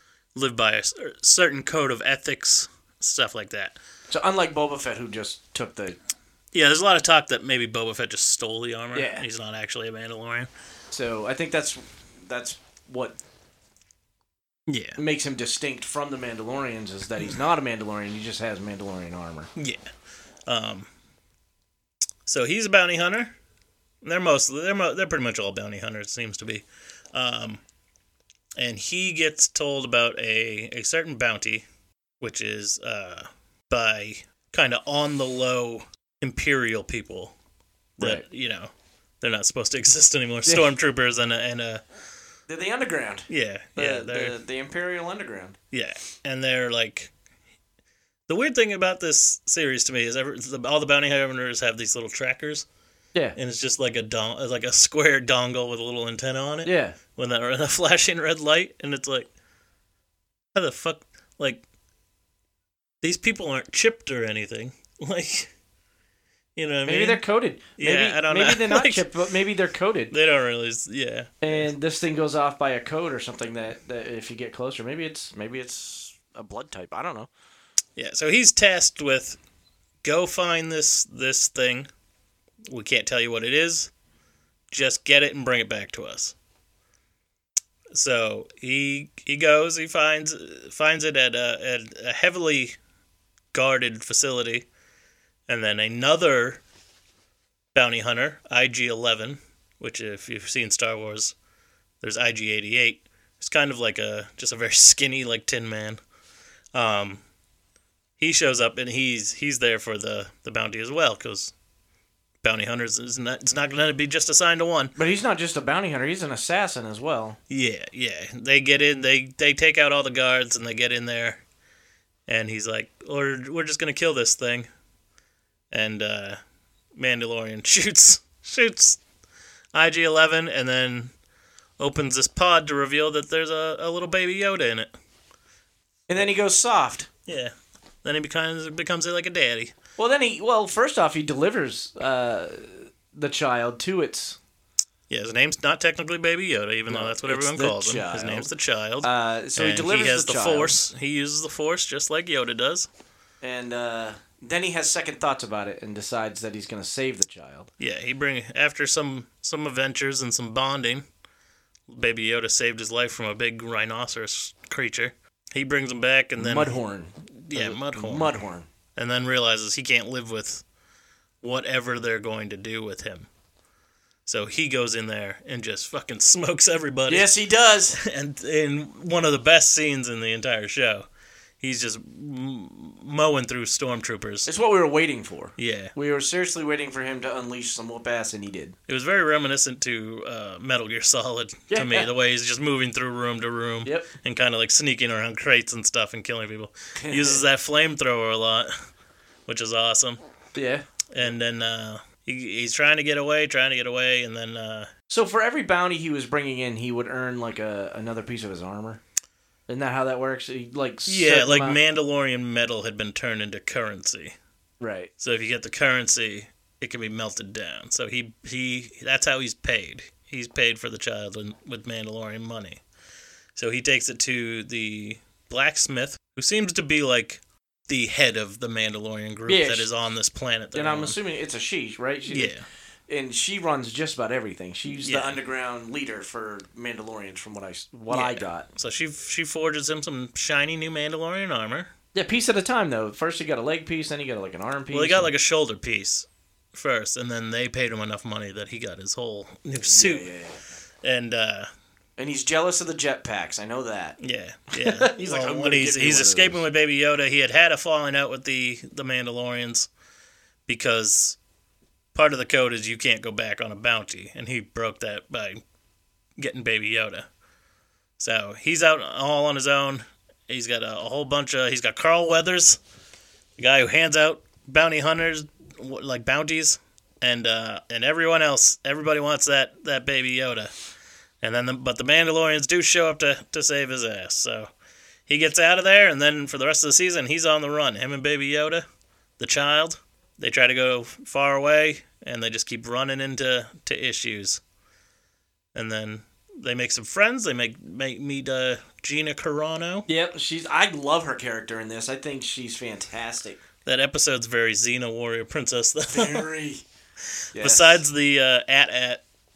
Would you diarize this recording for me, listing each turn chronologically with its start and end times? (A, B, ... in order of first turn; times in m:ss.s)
0:00.3-0:03.8 A
0:04.1-0:06.0 B
0:06.5-0:10.5 A
0:08.9-0:09.2 B
0:10.9-0:13.2 B
0:14.7-0:15.0 A
0:15.0-0:19.5 B
0:19.6-0:19.8 A
0:20.5-0:20.9 A
0:22.2-0:23.3 A
0:24.0-0:27.6 A
0:28.6-0:31.6 A
0:32.2-0:37.3 A
0:38.0-0:41.8 A
0:38.0-0:38.2 B
0:42.5-0:45.6 B
0:43.3-0:44.4 A
0:45.7-0:47.1 A
0:48.3-0:52.7 A
0:53.4-0:59.3 A
0:56.6-0:57.0 B
1:00.5-1:01.6 A
1:03.0-1:05.5 A
1:06.6-1:07.2 A
1:06.8-1:10.1 B
1:07.8-1:09.1 A
1:10.1-1:11.7 A
1:11.4-1:17.3 B
1:18.0-1:19.4 A
1:20.0-1:21.9 A
1:22.7-1:23.9 A
1:24.7-1:26.3 A
1:27.9-1:32.8 A
1:33.5-1:34.7 A
1:35.5-1:36.6 A
1:37.7-1:41.3 A
1:42.0-1:46.0 A
1:46.7-1:47.2 A
1:48.2-1:51.5 A
1:52.4-1:54.9 A
1:55.0-1:57.4 B
1:57.5-2:01.4 A
2:02.3-2:04.7 A
2:05.7-2:06.4 A
2:07.0-2:09.0 A
2:09.7-2:11.1 A
2:11.8-2:14.9 A
2:16.1-2:17.1 B
2:17.3-2:19.7 A
2:20.0-2:24.4 B
2:25.1-2:32.9 A
2:26.9-2:28.5 B
2:29.0-2:30.8 B
2:33.4-2:37.7 B
2:37.8-2:41.0 A
2:41.9-2:46.8 A
2:46.4-2:48.7 B
2:47.3-2:48.4 A
2:49.0-2:50.6 A
2:51.4-2:53.3 A
2:54.2-2:57.3 A
2:57.1-2:58.0 B
2:58.0-3:01.1 A
3:01.6-3:04.5 A
3:04.4-3:08.8 B
3:05.6-3:05.9 A
3:08.9-3:18.7 A
3:11.7-3:12.1 B
3:13.8-3:14.1 B
3:17.0-3:17.4 B
3:19.5-3:20.2 A
3:20.5-3:20.9 B
3:21.1-3:24.9 A
3:25.1-3:29.0 B
3:29.7-3:31.8 B
3:31.0-3:34.3 A
3:34.8-3:35.1 B
3:35.2-3:42.8 A
3:43.6-3:51.2 A
3:49.5-3:49.9 B
3:50.7-3:52.5 B
3:52.3-3:52.6 A
3:53.1-3:58.7 B
3:55.0-3:55.4 A
3:58.1-4:01.9 A
4:02.1-4:05.3 B
4:04.9-4:10.3 A
4:09.9-4:10.6 B
4:11.0-4:11.7 A
4:12.2-4:14.2 B
4:14.2-4:19.9 A
4:14.7-4:16.6 B
4:20.7-4:21.4 A
4:22.1-4:25.6 A
4:26.4-4:27.3 A
4:28.2-4:32.8 A
4:33.6-4:40.7 A
4:41.4-4:44.7 A
4:45.3-4:48.8 A
4:49.4-4:54.6 A
4:55.7-5:00.1 A
5:00.1-5:03.6 B
5:03.8-5:06.5 A
5:06.1-5:06.8 B
5:07.5-5:08.0 B
5:07.6-5:09.2 A